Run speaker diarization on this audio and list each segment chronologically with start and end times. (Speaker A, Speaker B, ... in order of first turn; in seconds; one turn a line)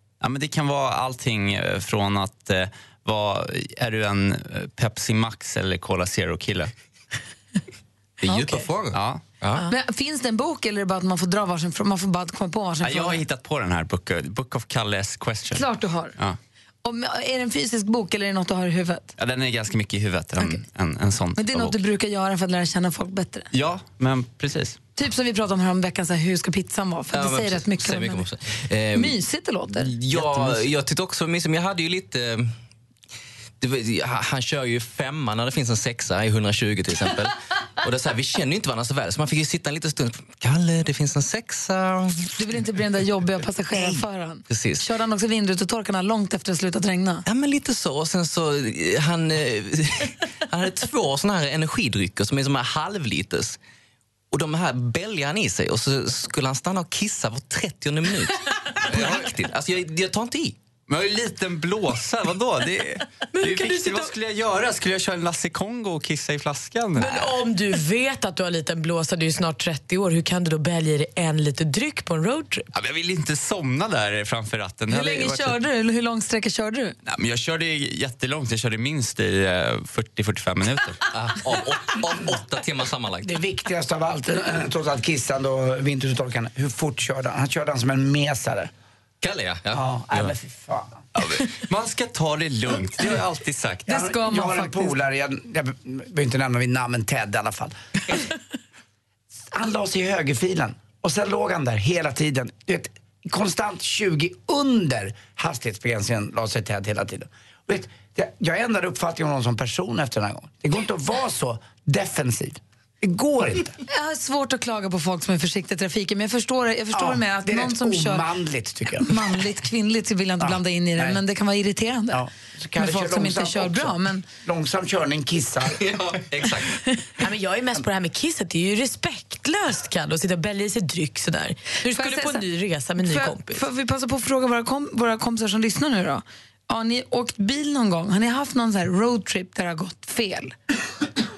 Speaker A: 0.2-6.7
Speaker B: 8.2-9.7
Speaker A: 8.9-9.2
Speaker C: 9.7-13.2
Speaker A: 12.8-16.4
Speaker C: 15.5-16.1
Speaker C: 16.8-19.1
Speaker A: 19.2-21.8
Speaker C: 21.4-23.5
Speaker A: 23.5-24.8
Speaker C: 24.9-28.3
Speaker B: 27.1-29.1
Speaker C: 28.9-29.9
Speaker B: 29.7-32.5
Speaker B: 33.6-42.3
Speaker C: 42.4-47.2
Speaker B: 43.7-44.9
Speaker B: 47.2-53.6
Speaker B: 54.3-60.5
Speaker A: 58.9-59.3
Speaker A: 60.9-67.3
Speaker D: 63.3-64.1
Speaker D: 67.0-72.7
Speaker A: 72.7-75.6
Speaker C: 74.9-76.9
Speaker A: 77.0-81.0
Speaker B: 81.1-83.3
Speaker E: 83.2-88.7
Speaker B: 89.2-90.3
Speaker E: 89.7-91.0
Speaker A: 91.2-93.9
Speaker E: 93.9-97.7
Speaker C: 93.9-95.0
Speaker E: 99.5-113.8
Speaker C: 113.9-118.2
Speaker E: 116.9-119.2
Speaker C: 119.0-122.2
Speaker E: 120.4-121.2
Speaker E: 122.1-125.8
Speaker C: 122.8-124.2
Speaker B: 125.8-126.8
Speaker D: 127.2-133.6
Speaker C: 131.8-132.4
Speaker C: 133.0-140.5